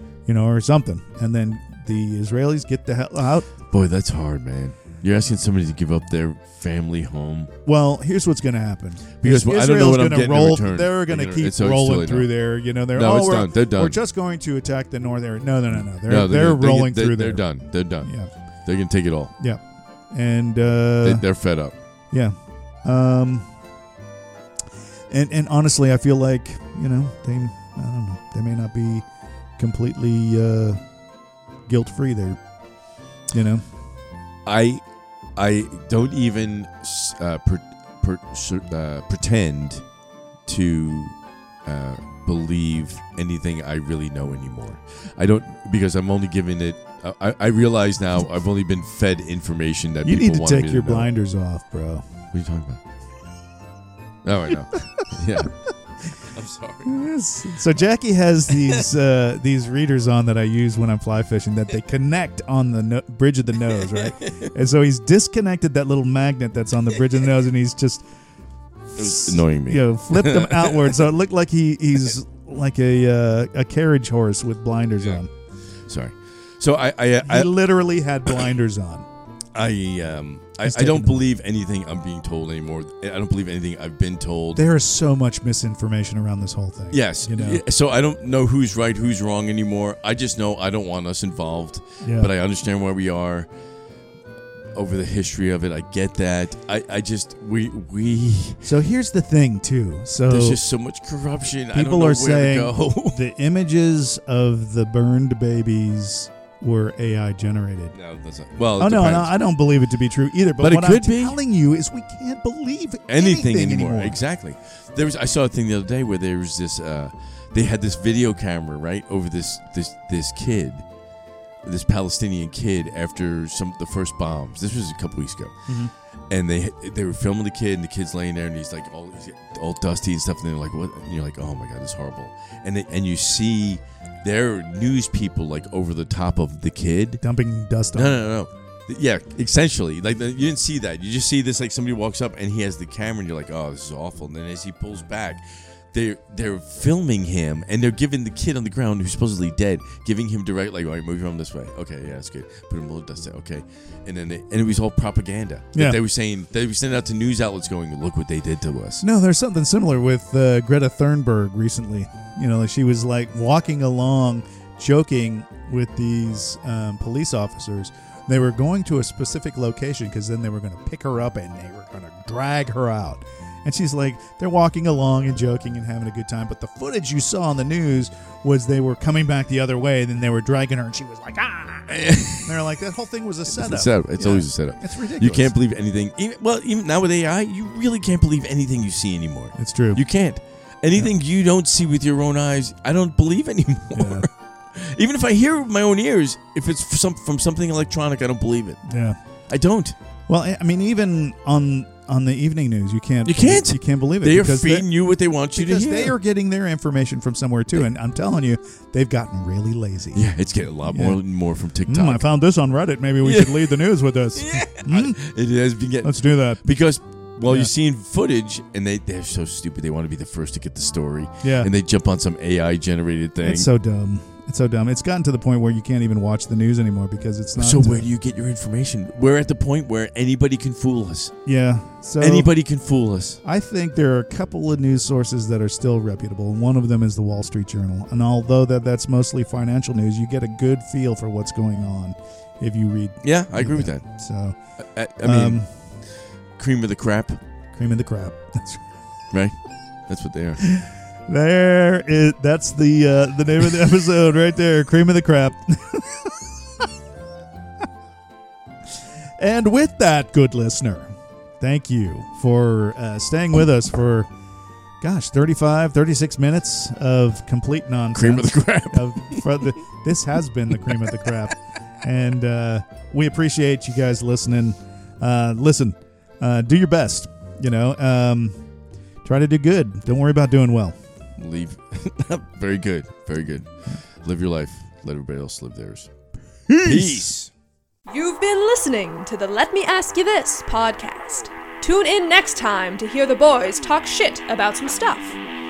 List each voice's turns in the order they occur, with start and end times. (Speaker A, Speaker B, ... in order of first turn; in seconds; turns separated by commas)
Speaker A: 0.2-3.5, Speaker B: 3.7-7.5, Speaker A: 7.6-18.3, Speaker B: 9.2-12.4, Speaker B: 12.9-14.0, Speaker B: 15.7-18.1, Speaker B: 18.6-19.3, Speaker A: 19.4-21.3, Speaker B: 21.0-21.7, Speaker A: 22.1-23.5, Speaker A: 25.1-29.0, Speaker A: 29.6-30.8, Speaker A: 31.6-32.4, Speaker A: 33.2-33.7, Speaker B: 34.4-39.9, Speaker B: 40.5-51.1, Speaker A: 50.0-52.0, Speaker B: 52.3-52.8, Speaker B: 54.2-56.9, Speaker A: 54.7-55.7, Speaker A: 56.8-68.0, Speaker B: 63.7-64.5, Speaker A: 68.9-75.3, Speaker B: 68.9-71.1, Speaker B: 75.8-77.5, Speaker A: 77.2-79.0, Speaker B: 79.5-84.6, Speaker A: 80.6-81.2, Speaker A: 84.5-87.6, Speaker B: 86.9-93.5, Speaker A: 92.0-92.3, Speaker B: 94.7-98.6, Speaker A: 98.6-100.6, Speaker B: 100.3-103.2, Speaker A: 101.7-108.0, Speaker B: 107.9-109.3, Speaker A: 108.8-114.2, Speaker B: 110.6-111.4, Speaker B: 113.1-120.8, Speaker B: 121.6-125.7, Speaker A: 125.7-125.9, Speaker B: 126.3-137.2, Speaker A: 137.2-138.3, Speaker B: 137.9-159.0, Speaker A: 159.0-185.5, Speaker B: 181.9-182.6, Speaker B: 183.5-198.8, Speaker A: 189.6-190.0, Speaker A: 193.9-194.2, Speaker A: 198.8-199.2, Speaker B: 199.5-199.9, Speaker A: 200.3-204.9, Speaker B: 203.2-206.1, Speaker A: 205.5-210.3, Speaker B: 210.1-212.2, Speaker A: 210.8-211.2, Speaker A: 211.9-215.2, Speaker B: 213.2-223.7, Speaker A: 216.0-216.6, Speaker A: 217.4-217.7, Speaker A: 221.4-221.7, Speaker A: 223.4-228.1, Speaker B: 227.6-231.3, Speaker A: 231.4-232.5, Speaker B: 232.2-233.4, Speaker A: 233.4-244.6, Speaker B: 243.2-244.0, Speaker B: 244.8-247.4, Speaker A: 245.2-245.7, Speaker A: 247.7-248.9, Speaker B: 249.3-250.6, Speaker A: 250.6-256.4, Speaker A: 259.4-264.3, Speaker A: 265.0-278.5, Speaker B: 268.1-269.6, Speaker B: 270.9-271.3, Speaker A: 279.2-280.9, Speaker B: 281.4-283.7, Speaker B: 284.2-286.1, Speaker A: 286.7-287.3, Speaker B: 286.8-287.5, Speaker C: 288.1-295.4